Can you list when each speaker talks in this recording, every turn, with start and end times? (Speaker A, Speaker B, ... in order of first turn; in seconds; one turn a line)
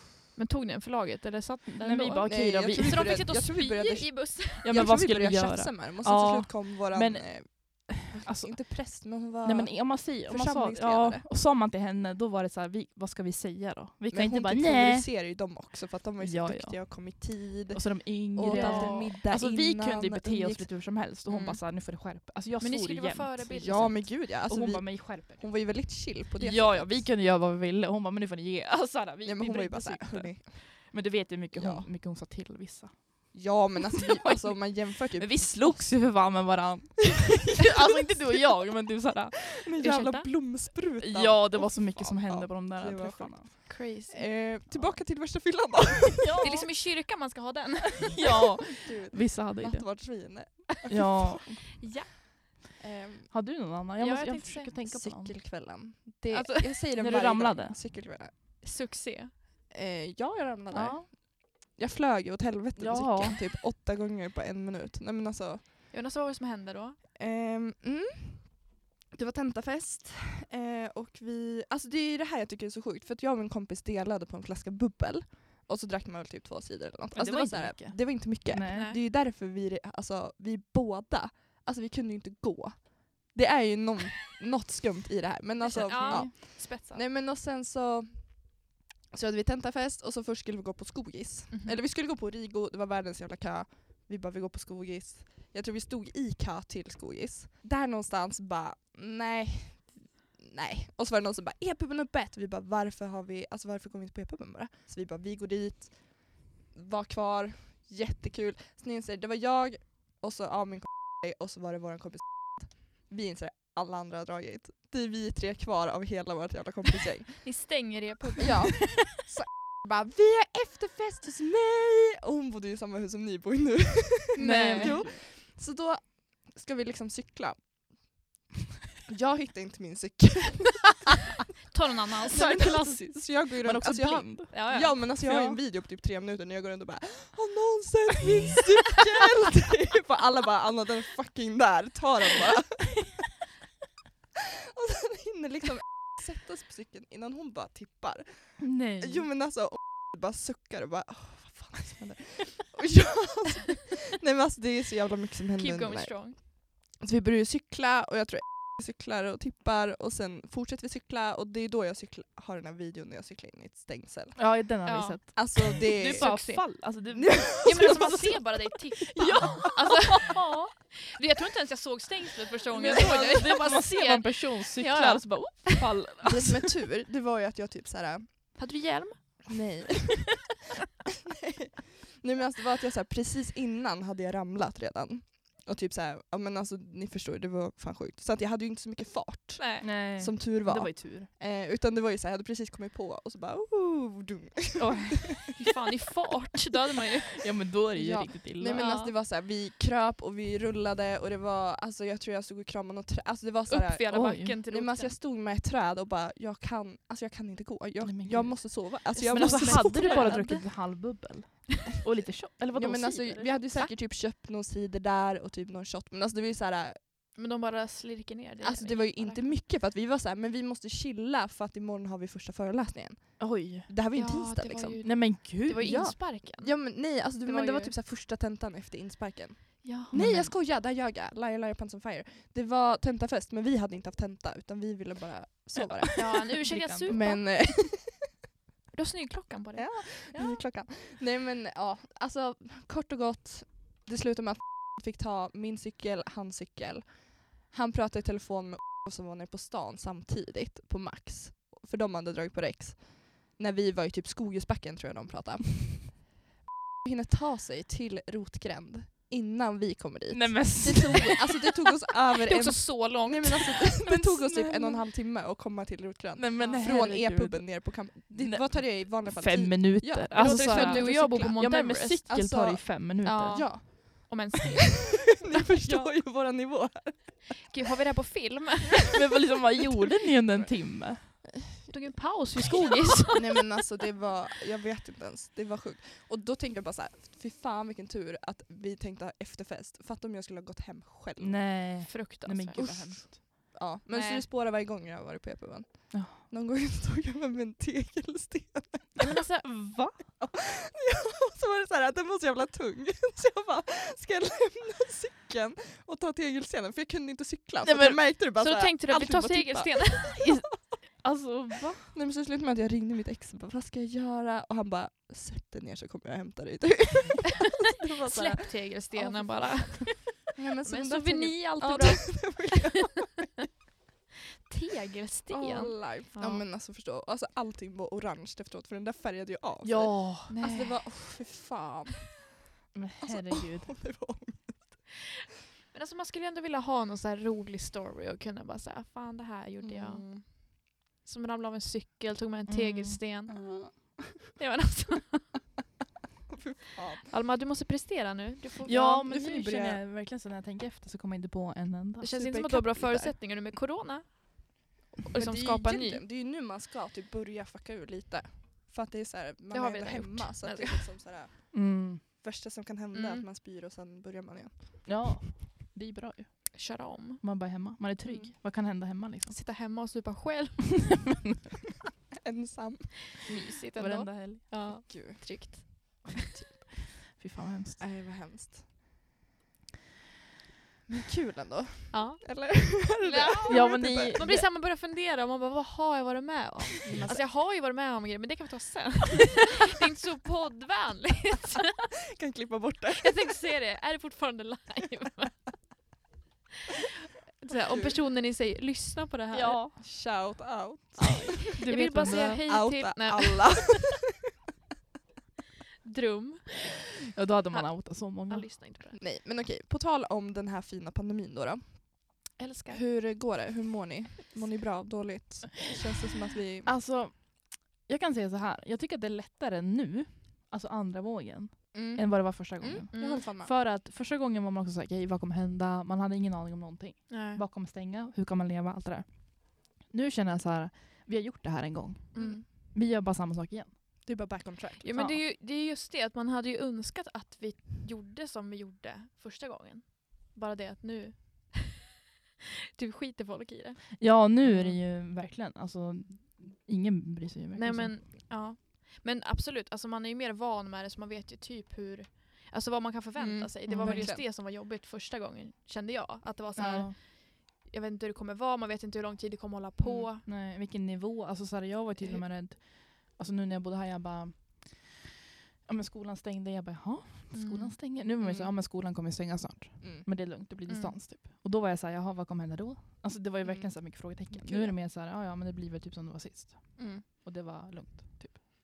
Speaker A: 0.3-4.8
Speaker B: 1.8-3.2
Speaker C: 2.2-11.2
Speaker B: 4.6-15.1
Speaker C: 14.1-21.6
Speaker B: 16.2-33.4
Speaker A: 18.4-19.1
Speaker A: 22.6-24.1
Speaker C: 23.5-27.1
Speaker C: 29.2-30.9
Speaker C: 31.5-31.9
Speaker C: 33.3-35.9
Speaker B: 34.0-39.6
Speaker C: 39.6-46.5
Speaker A: 39.8-40.3
Speaker B: 41.0-43.5
Speaker A: 43.7-44.9
Speaker B: 46.2-46.7
Speaker A: 46.4-48.5
Speaker B: 48.1-51.7
Speaker C: 48.8-51.3
Speaker A: 51.8-52.1
Speaker C: 52.8-53.3
Speaker B: 53.3-55.4
Speaker A: 54.0-54.7
Speaker C: 54.8-58.6
Speaker A: 56.3-56.8
Speaker B: 57.0-57.8
Speaker A: 58.6-59.4
Speaker C: 59.7-65.7
Speaker B: 60.7-61.1
Speaker B: 62.8-63.4
Speaker A: 65.9-67.0
Speaker C: 67.1-117.6
Speaker B: 77.1-78.9
Speaker A: 78.7-79.0
Speaker A: 85.6-87.0
Speaker B: 85.7-86.3
Speaker A: 91.5-91.8
Speaker A: 117.4-118.8
Speaker C: 118.4-128.1
Speaker A: 124.3-125.1
Speaker B: 124.4-125.2
Speaker C: 129.1-131.1
Speaker A: 131.7-133.2
Speaker C: 132.3-143.2
Speaker B: 132.5-135.6
Speaker A: 134.5-134.9
Speaker C: 144.7-164.6
Speaker B: 148.6-149.3
Speaker A: 155.6-156.4
Speaker B: 164.3-168.5
Speaker A: 164.8-166.8
Speaker C: 165.3-168.2
Speaker A: 167.6-175.9
Speaker B: 169.1-170.7
Speaker B: 172.7-176.7
Speaker C: 176.2-178.7
Speaker A: 178.6-179.6
Speaker C: 179.5-180.4
Speaker C: 181.4-195.6
Speaker A: 189.6-189.9
Speaker B: 189.8-191.3
Speaker B: 194.8-195.5
Speaker A: 195.6-197.4
Speaker B: 197.4-198.9
Speaker C: 197.9-210.6
Speaker A: 198.7-199.1
Speaker A: 203.7-205.2
Speaker B: 204.1-204.6
Speaker B: 208.0-213.7
Speaker A: 209.1-210.7
Speaker C: 212.7-217.0
Speaker A: 217.3-219.6
Speaker C: 218.6-238.3
Speaker B: 223.4-223.9
Speaker A: 224.1-227.9
Speaker B: 225.0-226.1
Speaker A: 229.8-230.1
Speaker B: 230.1-230.5
Speaker B: 235.8-237.3
Speaker A: 236.2-237.7
Speaker A: 238.9-240.3
Speaker C: 239.7-256.3
Speaker B: 240.3-240.6
Speaker C: 257.0-274.4
Speaker B: 260.3-261.6
Speaker A: 262.4-263.9
Speaker B: 264.0-265.0
Speaker B: 266.4-273.7
Speaker A: 266.6-266.9
Speaker A: 270.3-272.3
Speaker A: 273.2-276.1
Speaker C: 275.3-277.7
Speaker A: 277.7-279.2
Speaker B: 279.1-281.4
Speaker C: 280.5-281.9
Speaker A: 281.9-283.8
Speaker C: 283.3-292.0
Speaker B: 291.4-293.4
Speaker A: 292.1-293.3
Speaker C: 292.8-299.4
Speaker A: 294.1-294.4
Speaker B: 296.1-296.4
Speaker A: 299.2-300.1
Speaker B: 299.6-300.1
Speaker C: 300.4-310.5
Speaker B: 307.8-308.3
Speaker A: 308.6-310.4
Speaker B: 310.2-312.1
Speaker C: 312.1-323.5
Speaker A: 318.2-323.0
Speaker A: 324.7-326.6
Speaker C: 325.5-332.6
Speaker B: 329.8-330.5
Speaker A: 330.5-331.4
Speaker B: 332.9-334.0
Speaker C: 333.2-335.1
Speaker A: 335.9-345.6
Speaker C: 339.8-340.5
Speaker B: 342.7-343.2
Speaker C: 343.5-344.5
Speaker C: 346.5-347.3
Speaker A: 347.2-349.3
Speaker B: 348.9-352.3
Speaker C: 349.1-350.0
Speaker A: 352.2-356.2
Speaker C: 352.3-353.4
Speaker C: 355.3-365.2
Speaker A: 359.7-361.1
Speaker B: 361.7-362.2
Speaker A: 363.1-363.4
Speaker B: 365.1-369.6
Speaker A: 366.7-367.4
Speaker C: 368.2-368.5
Speaker A: 369.5-371.4
Speaker C: 372.4-373.4
Speaker A: 373.4-376.5
Speaker B: 374.0-374.7
Speaker C: 375.0-376.0
Speaker B: 377.3-378.0
Speaker C: 378.0-378.8
Speaker C: 381.1-384.6
Speaker A: 382.1-392.1
Speaker B: 383.7-384.7
Speaker C: 387.0-387.4
Speaker C: 392.3-393.5
Speaker A: 393.2-395.8
Speaker A: 397.6-399.8
Speaker C: 397.7-398.2
Speaker B: 399.5-400.0
Speaker C: 400.0-401.6
Speaker B: 401.2-402.6
Speaker A: 401.2-404.1
Speaker C: 402.2-404.3
Speaker A: 406.0-406.9
Speaker B: 407.3-408.7
Speaker A: 407.7-409.2
Speaker C: 409.2-416.9
Speaker A: 412.6-413.0
Speaker B: 416.9-434.5
Speaker C: 421.9-423.7
Speaker A: 423.1-423.5
Speaker A: 427.3-427.6
Speaker A: 432.3-432.6
Speaker C: 432.4-432.6
Speaker C: 434.2-435.1
Speaker A: 435.0-442.0
Speaker A: 443.0-444.2
Speaker B: 444.2-448.2
Speaker C: 444.6-445.0
Speaker A: 447.7-460.5
Speaker C: 453.4-454.4
Speaker B: 453.9-454.3
Speaker B: 456.8-457.1
Speaker C: 460.0-460.3
Speaker B: 460.4-465.1
Speaker B: 465.9-478.6
Speaker A: 467.5-468.0
Speaker C: 468.4-468.7
Speaker C: 470.0-470.3
Speaker A: 470.9-471.2
Speaker C: 473.6-474.9
Speaker C: 477.0-477.2